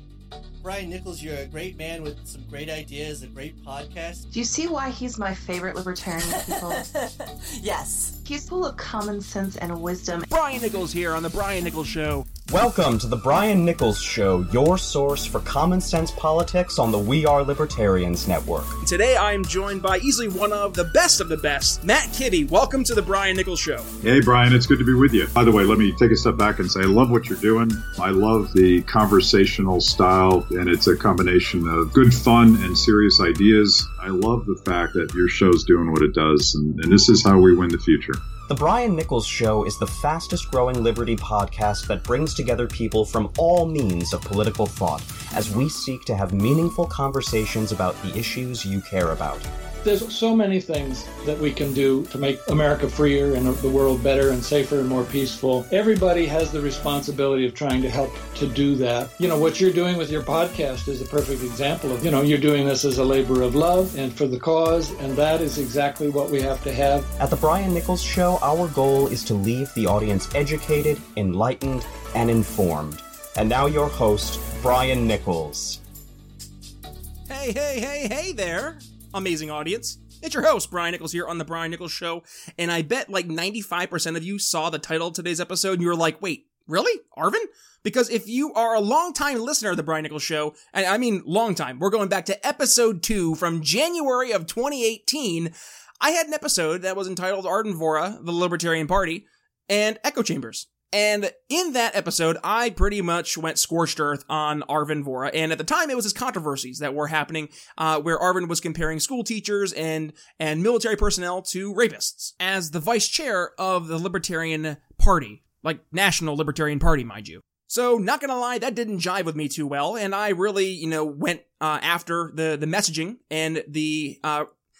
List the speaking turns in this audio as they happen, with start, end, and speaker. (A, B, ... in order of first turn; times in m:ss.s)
0:00.6-0:04.2 A
0:04.3-0:06.8 B
0:06.2-0:08.2 C
0:08.2-0:10.2 B
0:10.3-0:12.3 D
0:12.5-0:18.8 E
0:18.8-0:23.9 D
0:24.0-0:38.2 F
0:38.5-0:49.5 E
0:49.8-1:07.1 G
1:07.2-1:15.8 E
1:17.3-2:04.5 D